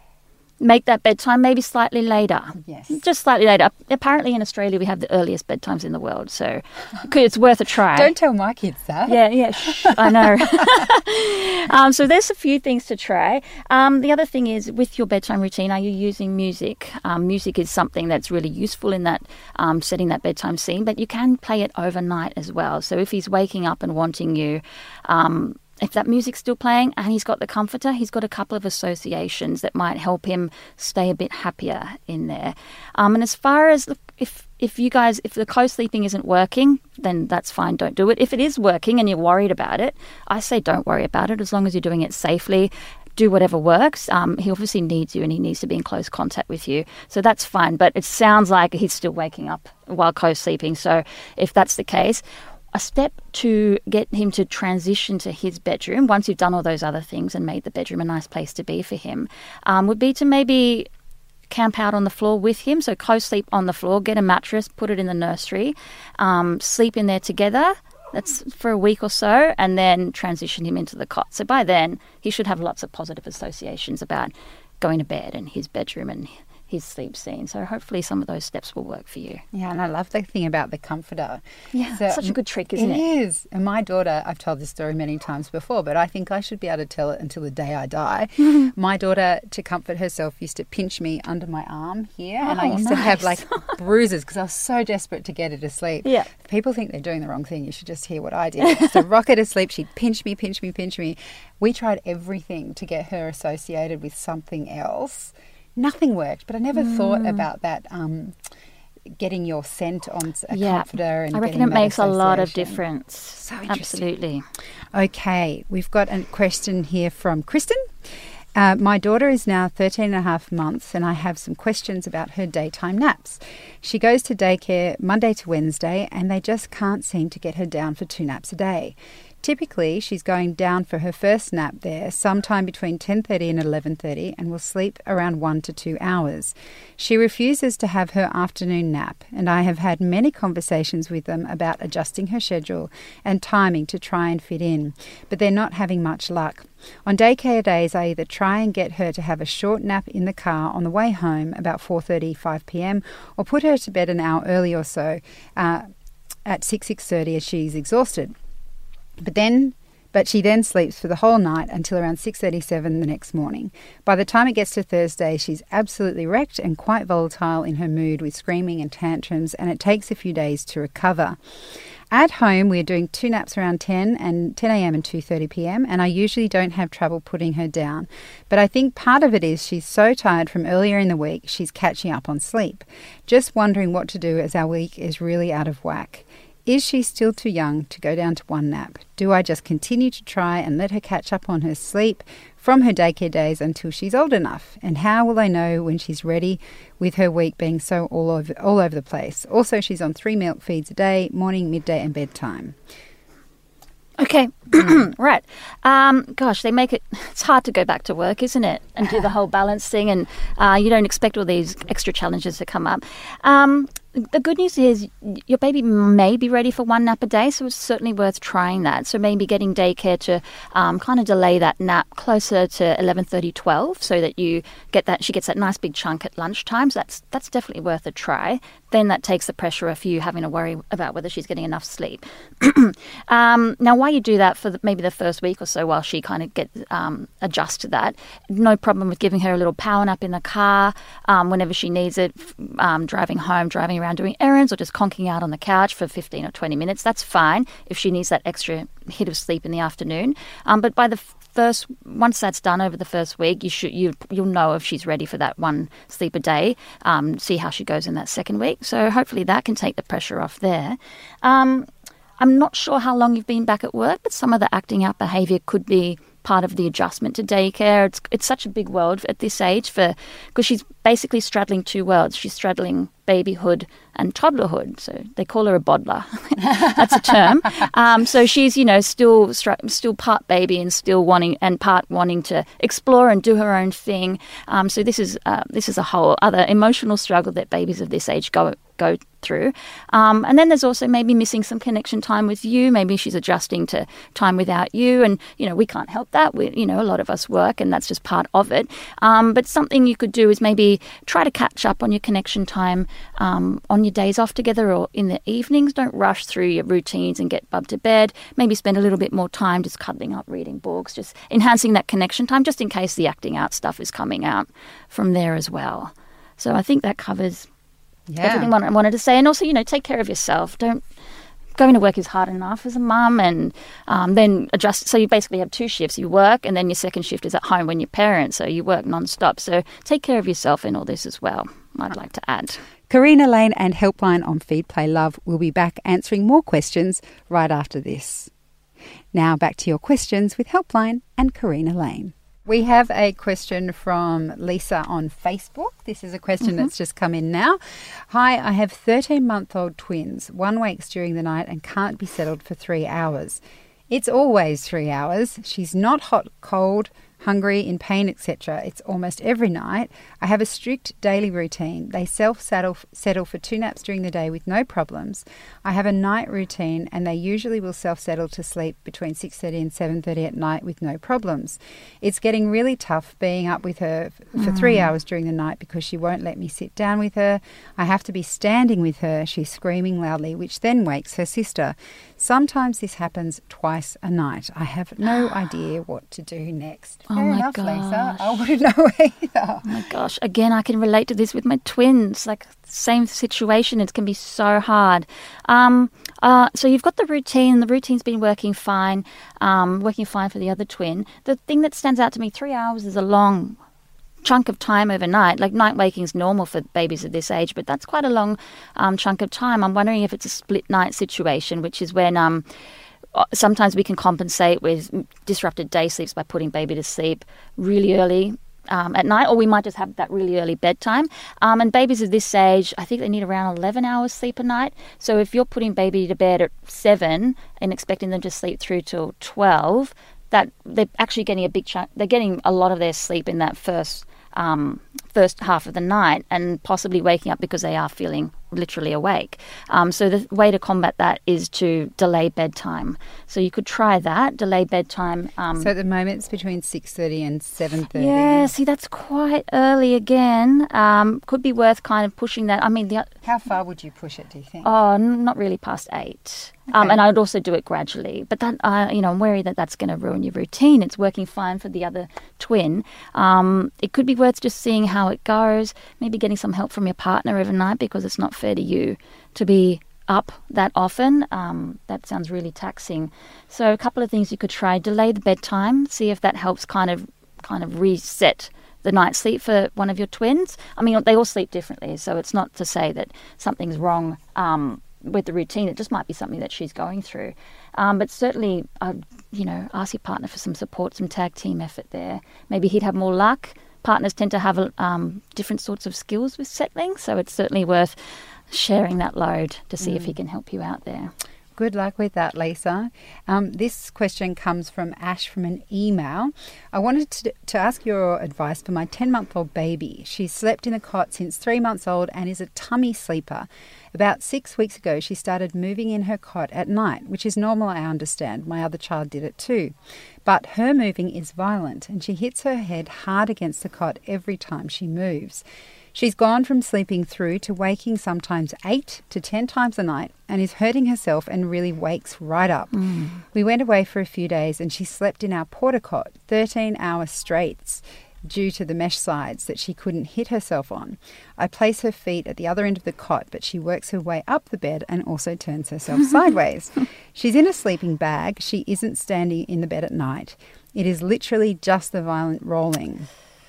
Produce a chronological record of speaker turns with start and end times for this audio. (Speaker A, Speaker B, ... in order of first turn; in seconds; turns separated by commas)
Speaker A: 0.6-8.1, Speaker B: 2.6-3.0, Speaker B: 8.0-10.8, Speaker A: 9.1-60.9, Speaker A: 61.5-79.4, Speaker B: 79.5-108.3, Speaker A: 81.7-83.0, Speaker A: 92.4-93.8, Speaker A: 98.7-99.0, Speaker A: 106.7-107.4, Speaker B: 109.2-112.8, Speaker A: 110.5-114.4, Speaker B: 113.3-114.1, Speaker B: 114.9-117.9, Speaker B: 118.6-155.9, Speaker B: 156.5-158.3, Speaker B: 159.2-171.4, Speaker B: 172.1-202.8, Speaker A: 204.2-317.7, Speaker B: 318.3-318.7, Speaker A: 318.4-321.0, Speaker A: 321.8-332.8, Speaker B: 333.1-338.5, Speaker B: 339.3-347.8, Speaker A: 346.6-346.9, Speaker B: 348.3-389.9, Speaker A: 374.6-375.1, Speaker A: 385.2-385.5, Speaker A: 387.3-388.6, Speaker A: 389.9-403.8, Speaker A: 404.4-412.7, Speaker A: 413.3-445.9, Speaker B: 445.8-448.7, Speaker A: 448.1-453.3, Speaker B: 453.4-454.9, Speaker A: 454.8-498.2, Speaker B: 456.9-457.2, Speaker A: 498.7-501.3, Speaker B: 500.0-500.3, Speaker B: 501.8-519.9, Speaker B: 520.5-525.6, Speaker B: 526.1-533.0, Speaker A: 532.9-533.4, Speaker B: 533.5-553.3